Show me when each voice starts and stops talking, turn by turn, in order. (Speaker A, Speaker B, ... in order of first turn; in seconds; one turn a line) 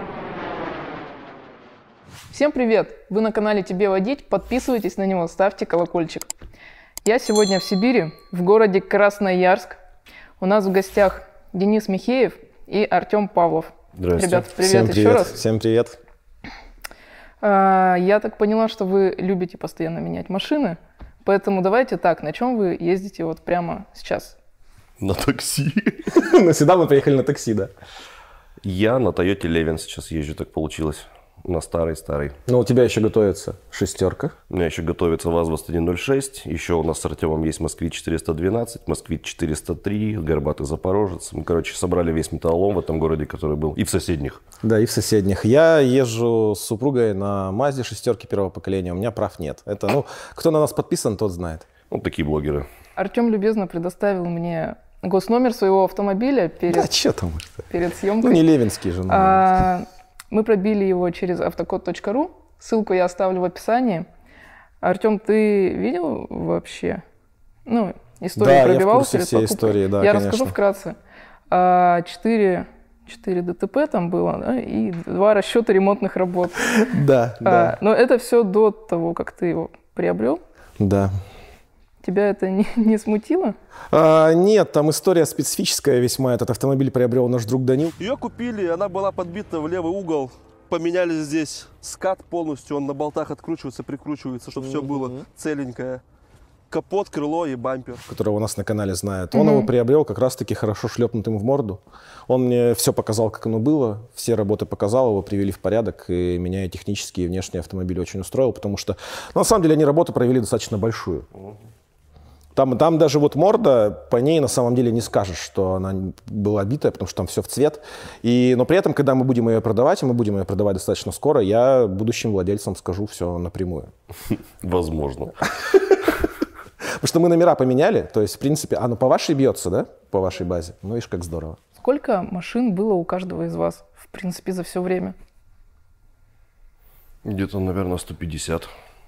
Speaker A: 2.3-6.3
Speaker A: 7.0-9.8
Speaker A: 10.4-15.3
Speaker B: 13.9-14.4
Speaker C: 14.5-16.0
Speaker A: 17.4-24.4
Speaker B: 25.0-26.0
Speaker C: 26.1-27.7
Speaker B: 28.6-32.4
Speaker C: 32.5-34.3
Speaker B: 34.5-44.4
Speaker C: 44.6-51.7
Speaker B: 51.9-52.7
Speaker A: 53.0-56.9
Speaker C: 56.7-57.6
Speaker A: 57.7-58.4
Speaker C: 58.2-59.6
Speaker A: 59.1-64.1
Speaker A: 64.8-67.0
Speaker A: 67.7-71.0
Speaker C: 68.3-70.5
Speaker A: 71.5-76.8
Speaker C: 76.8-77.7
Speaker A: 77.4-80.4
Speaker C: 80.8-81.1
Speaker A: 82.0-83.5
Speaker C: 83.9-87.9
Speaker D: 88.0-96.0
Speaker C: 94.5-95.2
Speaker D: 96.7-98.0
Speaker C: 98.1-111.2
Speaker A: 99.3-99.7
Speaker C: 112.5-123.9
Speaker B: 124.6-125.5
Speaker C: 125.7-126.1
Speaker C: 127.0-131.6
Speaker A: 131.8-135.1
Speaker B: 137.2-138.7